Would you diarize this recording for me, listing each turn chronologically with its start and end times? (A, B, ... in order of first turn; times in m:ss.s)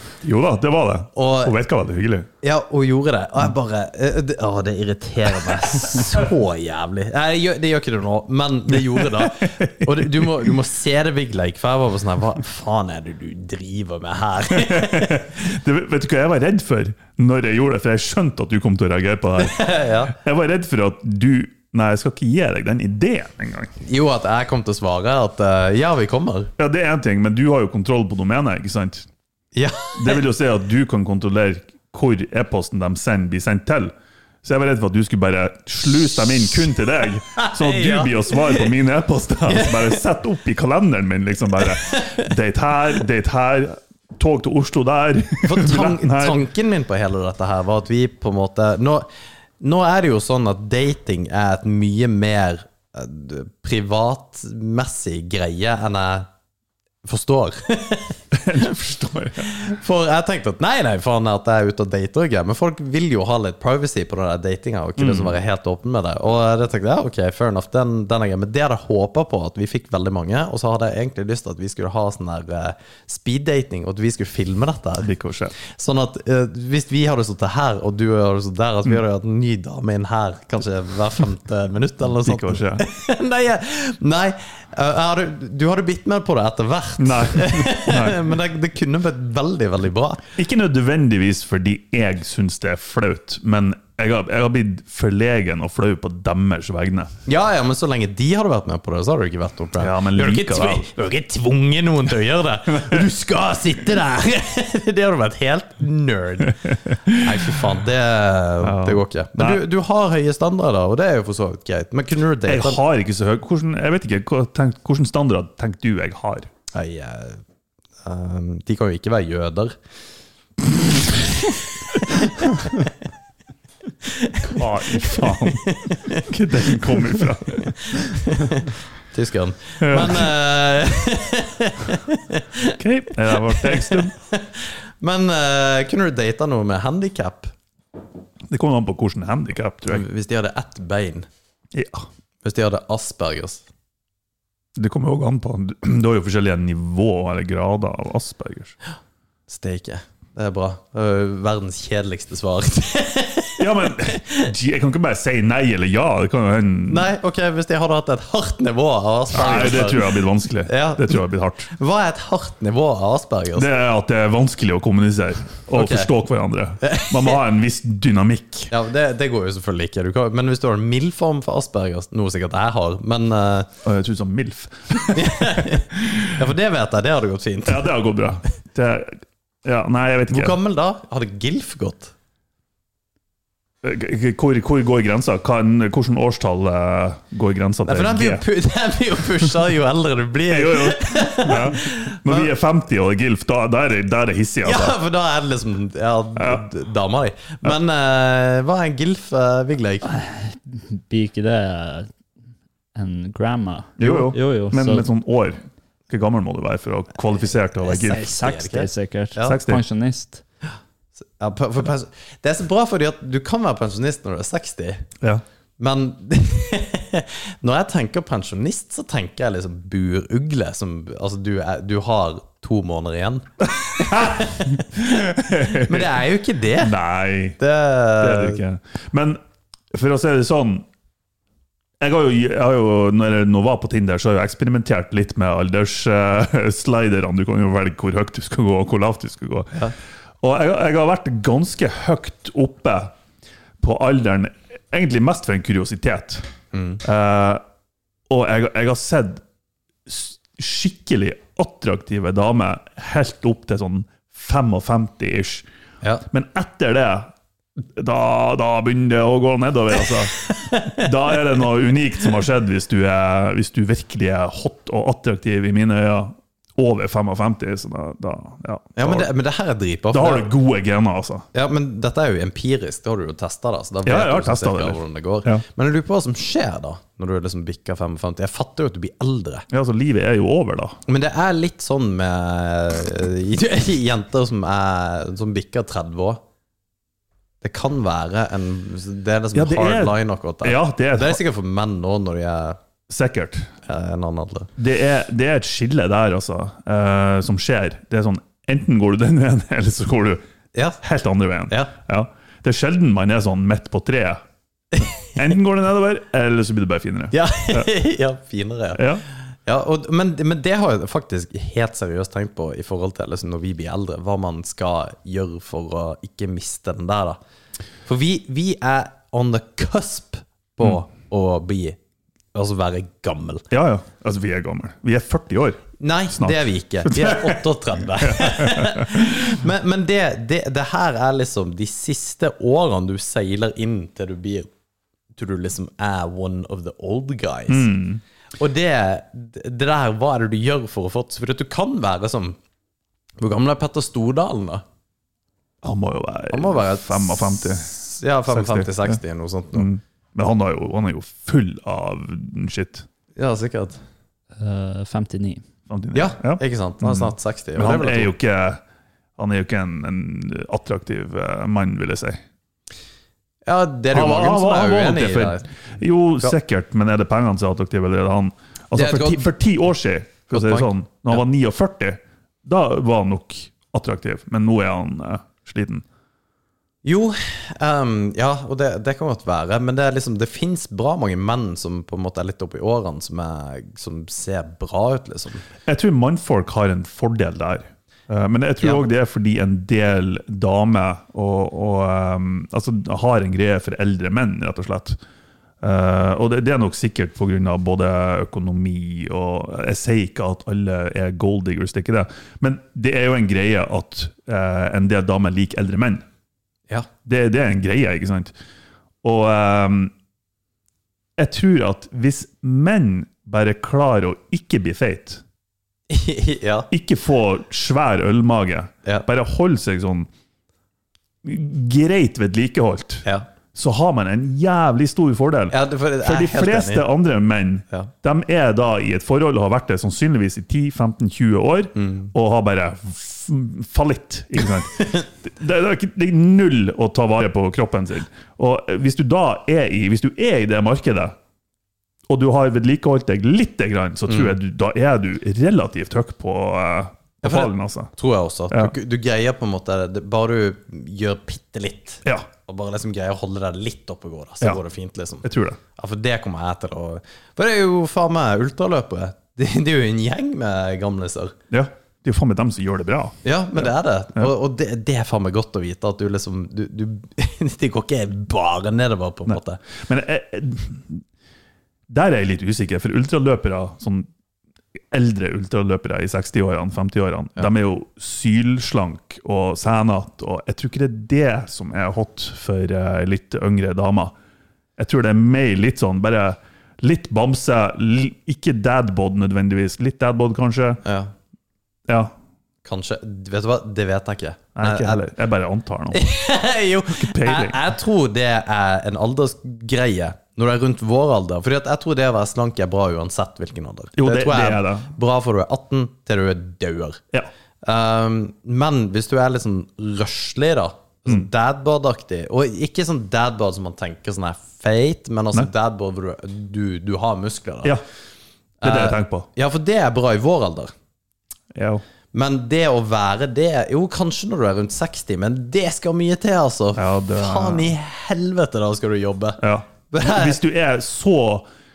0:00.2-0:02.3 A
0:01.1-0:01.6 B
0:02.4-0:15.3 B
0:08.7-0:10.5 A
0:14.5-0:23.7 A
0:19.4-0:20.1 B
0:23.8-0:26.5 B
0:26.6-0:29.1 A
0:29.6-0:30.2 B
0:30.0-0:46.4 A
0:37.3-0:38.7 B
0:39.5-0:40.0 B
0:41.8-0:42.3 B
0:45.4-0:49.1 B
0:49.6-0:56.3 B
0:57.0-0:58.2 B
0:58.3-0:59.7 A
0:59.4-1:30.2 B
1:05.0-1:05.3 A
1:15.0-1:15.5 A
1:22.2-1:22.8 A
1:27.0-1:28.2 A
1:30.4-1:37.1 A
1:37.2-1:52.8 B
1:39.8-1:40.9 A
1:42.8-1:43.0 A
1:48.6-1:49.6 A
1:52.5-1:56.5 A
1:56.7-1:57.4 B
1:58.0-1:59.8 B
2:01.0-2:01.6 B
2:02.1-2:02.9 B
2:04.0-2:12.8 B
2:04.4-2:08.0 A
2:09.8-2:10.3 A
2:12.8-2:14.1 A
2:13.3-2:17.5 B
2:18.5-2:20.1 A
2:19.9-2:21.3 B
2:21.7-2:22.1 A
2:22.4-2:23.6 B
2:24.8-2:28.8 A
2:29.5-2:34.5 B
2:33.6-2:37.1 A
2:36.9-2:43.7 B
2:39.3-2:41.7 A
2:43.6-2:48.7 A
2:45.7-2:46.1 B
2:46.8-2:47.4 B
2:48.7-2:53.7 B
2:53.8-2:56.4 A
2:55.1-2:57.9 B
2:57.6-3:00.6 A
3:00.3-3:02.1 B
3:03.8-3:08.4 A
3:07.8-3:12.5 B
3:10.5-3:15.0 A
3:14.6-3:20.1 B
3:16.4-3:16.6 A
3:20.1-3:22.1 C
3:22.9-3:25.1 C
3:24.0-3:28.2 A
3:27.8-3:29.6 B
3:27.9-3:30.4 C
3:29.4-3:29.8 A
3:31.2-3:35.1 B
3:35.8-3:46.9 B
3:43.9-3:46.2 A
3:46.8-3:47.6 A
3:47.6-3:48.6 B
3:48.2-3:49.4 A
3:49.9-3:50.9 A
3:52.0-3:59.8 A
4:00.4-4:03.1 A
4:03.8-4:06.4 A
4:06.7-4:07.0 B
4:07.0-4:07.6 A
4:08.3-4:09.4 A
4:10.1-4:15.6 A
4:16.3-4:29.3 A
4:20.3-4:21.3 B
4:29.0-4:30.5 B
4:30.1-4:31.5 A
4:31.5-4:39.6 B
4:34.0-4:35.6 A
4:39.7-4:41.0 A
4:41.1-4:46.4 B
4:47.6-4:52.8 B
4:49.6-4:51.4 A
4:53.1-4:53.7 A
4:53.8-4:54.7 B
4:54.8-5:00.4 A
5:00.7-5:01.0 B
5:01.0-5:04.4 A
5:04.9-5:05.2 B
5:05.4-5:07.9 A
5:07.3-5:17.4 B
5:08.9-5:09.2 A
5:18.1-5:22.0 B
5:22.5-5:23.6 B
5:23.7-5:29.5 A
5:26.0-5:34.7 B
5:35.4-5:37.9 B
5:37.7-5:38.2 A
5:38.6-5:42.6 B
5:43.4-5:44.8 B
5:45.8-5:49.2 A
5:46.5-5:49.9 B
5:49.7-5:53.1 A
5:53.4-5:54.0 B
5:54.6-5:55.6 C
5:55.9-5:58.8 A
5:56.1-5:58.3 B
5:59.4-6:02.4 A
6:03.6-6:05.7 B
6:04.1-6:16.0 A
6:08.9-6:09.5 B
6:10.5-6:11.4 B
6:17.0-6:25.6 B
6:25.9-6:35.2 A
6:35.8-6:46.2 A
6:47.2-6:48.5 A
6:49.2-6:50.1 A
6:51.4-6:55.4 A
6:56.1-6:56.9 B
6:56.9-7:00.3 A
7:01.4-7:21.4 A
7:05.7-7:07.1 B
7:12.0-7:12.3 B
7:22.3-7:28.1 A
7:24.3-7:24.5 B
7:27.4-7:41.6 B
7:35.4-7:35.8 A
7:41.7-7:44.5 A
7:43.4-7:49.8 B
7:49.5-7:51.2 A
7:52.1-7:54.3 A
7:55.1-8:04.3 A
8:05.0-8:11.0 A
8:11.0-8:11.3 B
8:12.1-8:12.3 A
8:12.8-8:15.2 B
8:14.8-8:16.2 A
8:16.1-8:27.2 B
8:17.1-8:17.8 A
8:24.2-8:25.1 A
8:27.8-8:38.0 B
8:38.8-8:40.9 B
8:38.8-8:39.5 A
8:41.7-8:42.0 A
8:42.3-8:50.6 B
8:47.0-8:47.9 A
8:49.6-8:51.6 A